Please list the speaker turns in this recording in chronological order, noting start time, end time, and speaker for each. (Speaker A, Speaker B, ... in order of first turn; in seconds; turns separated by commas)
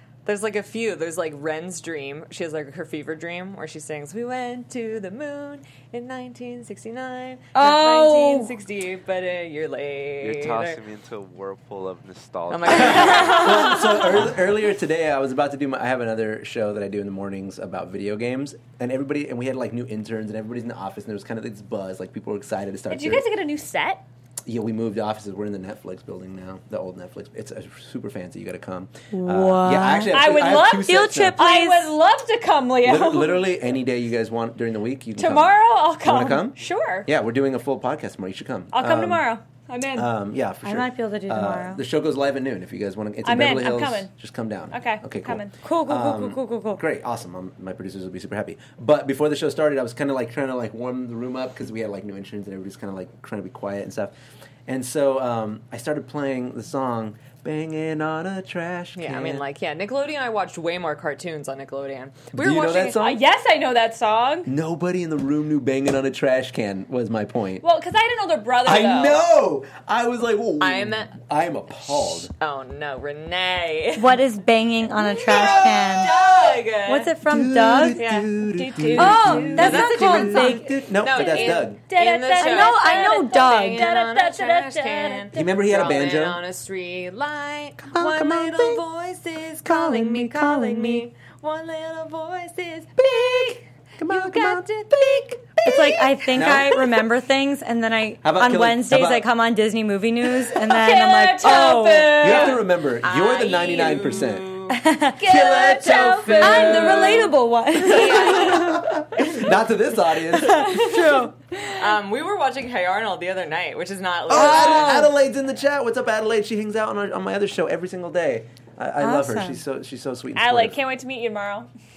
Speaker A: 0.2-10.8, Speaker B: 7.5-8.5, Speaker C: 10.2-13.6, Speaker A: 12.5-14.3, Speaker D: 12.7-23.2, Speaker E: 22.9-24.0, Speaker D: 24.4-31.4, Speaker B: 29.1-32.0, Speaker E: 30.1-33.5, Speaker D: 32.8-39.2, Speaker E: 35.1-37.1, Speaker E: 38.7-40.1, Speaker D: 39.9-54.1, Speaker B: 40.6-41.8, Speaker E: 43.2-44.1, Speaker E: 44.7-45.6, Speaker B: 45.6-46.8, Speaker D: 54.7-59.4, Speaker A: 58.9-63.0, Speaker D: 62.3-63.2, Speaker E: 63.0-64.5, Speaker D: 64.5-67.6, Speaker E: 67.6-69.2, Speaker D: 68.6-72.3, Speaker A: 70.6-71.2, Speaker A: 71.9-74.2, Speaker B: 74.0-76.2, Speaker A: 75.0-77.1, Speaker E: 75.3-75.9, Speaker B: 76.8-78.0, Speaker D: 77.3-81.8, Speaker A: 77.9-78.3, Speaker E: 78.4-85.6, Speaker B: 78.9-80.7, Speaker A: 79.5-95.3, Speaker B: 82.3-83.9, Speaker D: 85.3-86.4, Speaker D: 87.8-88.8, Speaker D: 89.6-91.1, Speaker D: 93.0-97.0, Speaker B: 95.6-102.5, Speaker D: 98.2-99.3, Speaker E: 100.7-102.6, Speaker D: 102.2-104.5, Speaker A: 103.0-104.8, Speaker B: 104.7-105.3, Speaker E: 105.2-107.2, Speaker D: 105.2-107.3, Speaker A: 105.8-107.3, Speaker B: 106.4-108.8, Speaker A: 107.8-109.5, Speaker E: 107.9-108.5, Speaker D: 108.3-110.8, Speaker B: 110.3-111.3, Speaker E: 110.8-111.2, Speaker A: 111.7-114.9, Speaker B: 114.3-115.1, Speaker D: 114.3-120.8, Speaker B: 119.0-119.6, Speaker E: 120.3-121.7